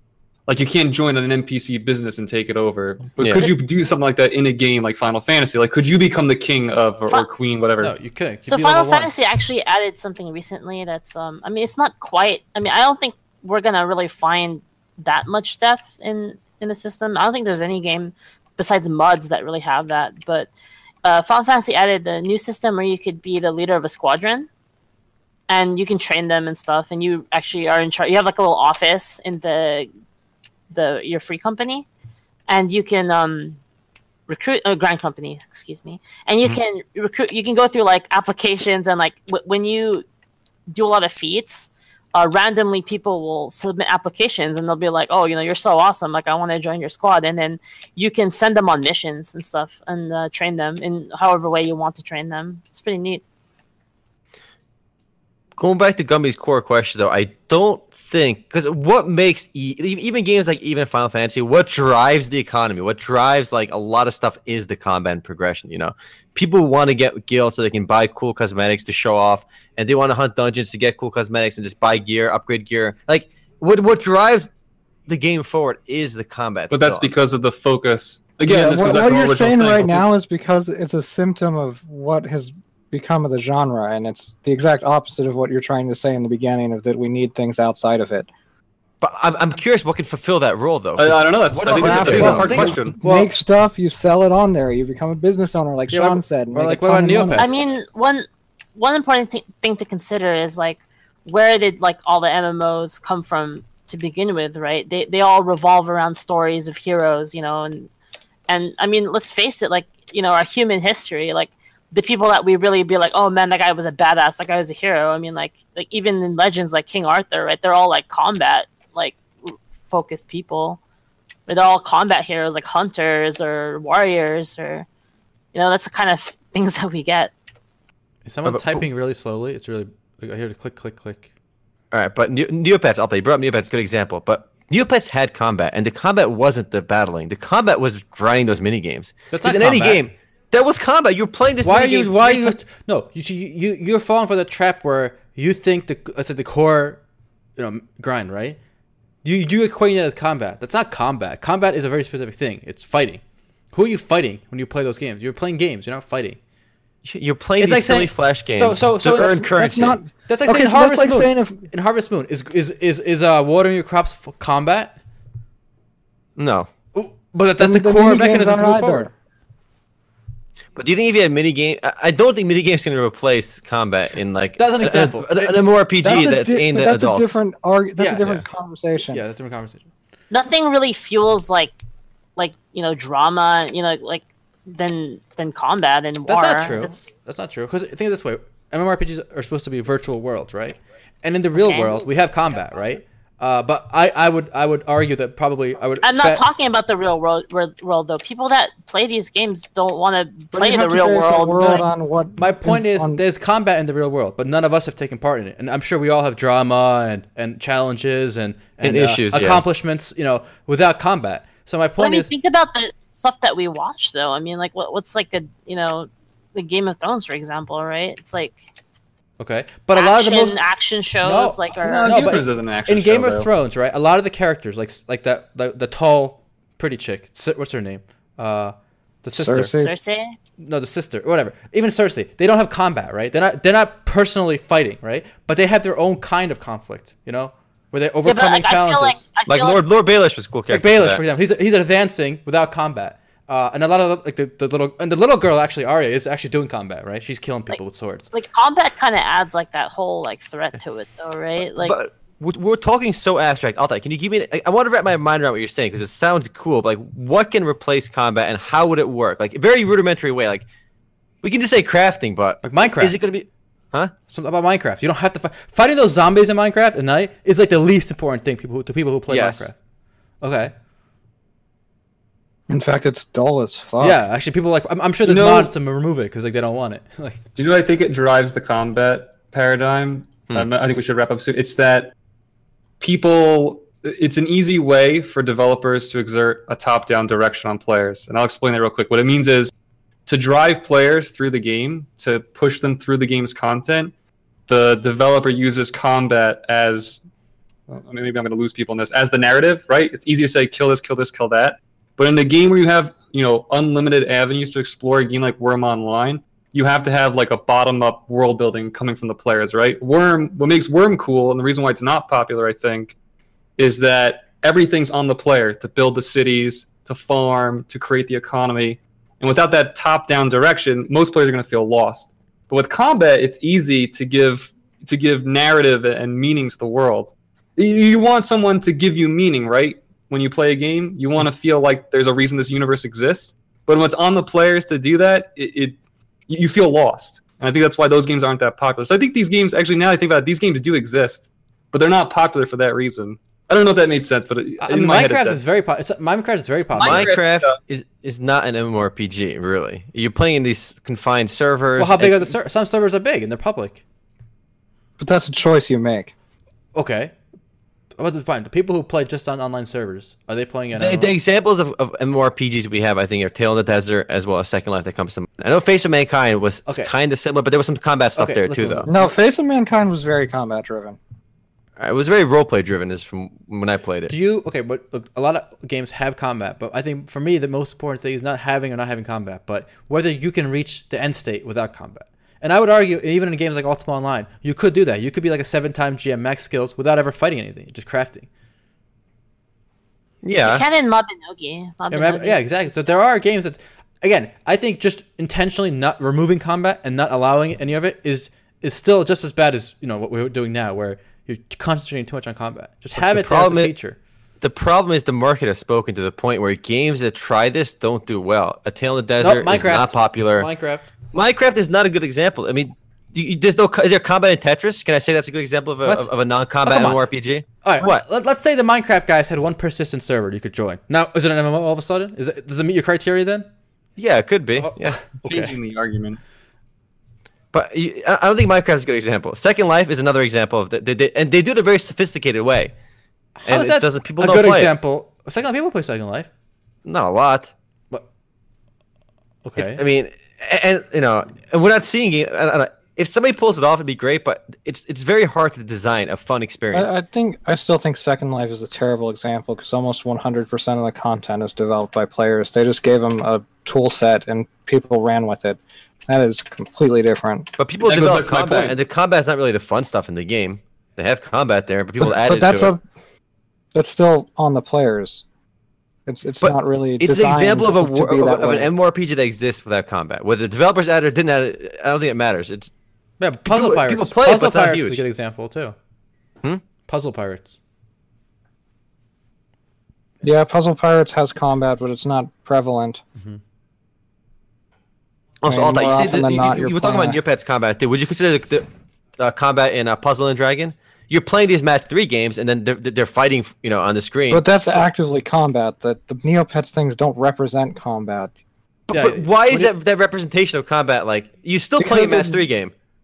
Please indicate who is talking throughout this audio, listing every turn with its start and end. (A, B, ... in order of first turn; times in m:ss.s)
0:00.5-0:07.9 A
0:03.2-0:03.5 B
0:07.8-0:09.1 C
0:08.5-0:20.5 D
0:21.0-0:24.5 D
0:25.5-0:29.9 D
0:30.7-0:31.8 D
0:32.5-0:33.6 D
0:34.3-0:40.0 D
0:40.7-0:53.2 D
0:55.6-1:14.5 B
1:15.1-1:17.1 B
1:16.7-1:20.0 A
1:18.4-1:28.3 E
1:29.0-1:32.6 B
1:31.0-1:33.0 A
1:31.7-1:37.6 E
1:31.8-1:33.3 C
1:35.9-1:37.5 C
1:37.4-1:47.9 D
1:48.5-2:00.8 D
2:01.5-2:04.8 D
2:05.5-2:07.3 D
2:08.2-2:11.3 C
2:08.4-2:08.8 B
2:11.9-2:22.6 B
2:19.3-2:20.0 C
2:21.6-2:27.0 C
2:27.6-2:28.6 C
2:29.2-2:36.4 C
2:37.0-2:40.0 B
2:37.6-2:39.4 C
2:39.2-2:41.6 E
2:40.3-2:45.0 C
2:46.4-2:46.7 B
2:46.9-2:49.1 C
2:47.6-2:49.1 E
2:50.7-2:57.3 B
2:54.6-2:55.6 C
2:56.0-2:59.2 E
2:58.0-2:58.4 C
2:59.1-2:59.8 C
3:00.3-3:01.7 D
3:02.4-3:07.0 D
3:06.3-3:16.4 C
3:11.5-3:12.0 D
3:16.0-3:21.8 D
3:20.5-3:23.2 E
3:22.4-3:32.3 C
3:28.8-3:29.6 B
3:32.0-3:38.6 D
3:39.4-3:40.6 C
3:39.9-3:42.3 D
3:41.2-3:49.7 C
3:41.8-3:43.5 A
3:49.3-3:49.9 E
3:49.7-3:50.4 D
3:50.6-3:59.2 C
3:58.2-3:59.8 D
3:59.5-4:01.2 B
4:00.7-4:08.3 C
4:08.3-4:12.0 D
4:11.8-4:20.7 B
4:21.4-4:24.1 B
4:22.6-4:23.2 C
4:24.3-4:29.8 C
4:29.3-4:29.7 B
4:30.4-4:30.7 C
4:32.7-4:34.2 E
4:34.0-4:37.4 C
4:35.2-4:35.7 A
4:37.5-4:42.1 A
4:43.0-4:49.7 A
4:50.2-4:54.1 A
4:54.7-4:57.2 A
4:57.9-5:13.1 A
5:13.8-5:45.6 A
5:44.8-5:47.3 C
5:47.0-5:47.8 A
5:47.0-5:52.5 B
5:52.0-5:54.0 C
5:55.2-5:56.3 E
5:56.9-5:57.3 C
5:58.2-6:01.3 C
6:01.0-6:09.1 B
6:08.4-6:09.3 C
6:09.1-6:11.2 E
6:12.0-6:14.3 B
6:14.3-6:28.5 C
6:30.4-6:30.8 B
6:30.6-6:32.6 D
6:32.1-6:44.2 C
6:43.2-6:43.9 B
6:44.6-6:50.7 B
6:49.4-6:51.0 C
6:51.3-6:58.2 B
6:56.8-6:57.2 C
6:57.8-7:03.7 C
7:04.2-7:05.2 B
7:04.8-7:05.7 C
7:05.4-7:06.4 A
7:07.7-7:12.9 B
7:13.6-7:16.5 C
7:13.7-7:14.9 B
7:17.0-7:17.7 B
7:19.6-7:20.0 C
7:19.8-7:27.1 B
7:26.9-7:37.7 E
7:37.8-7:42.9 B
7:38.0-7:39.0 A
7:42.2-7:43.0 E
7:43.9-7:45.4 E
7:46.2-7:48.9 E
7:46.6-7:52.9 B
7:53.4-7:55.9 C
7:53.6-7:55.2 B
7:57.0-7:57.7 C
8:00.4-8:03.2 E
8:05.6-8:08.9 B
8:05.7-8:07.4 E
8:09.4-8:14.6 B
8:14.5-8:18.5 E
8:19.1-8:22.9 B
8:19.1-8:19.9 C
8:22.0-8:22.6 E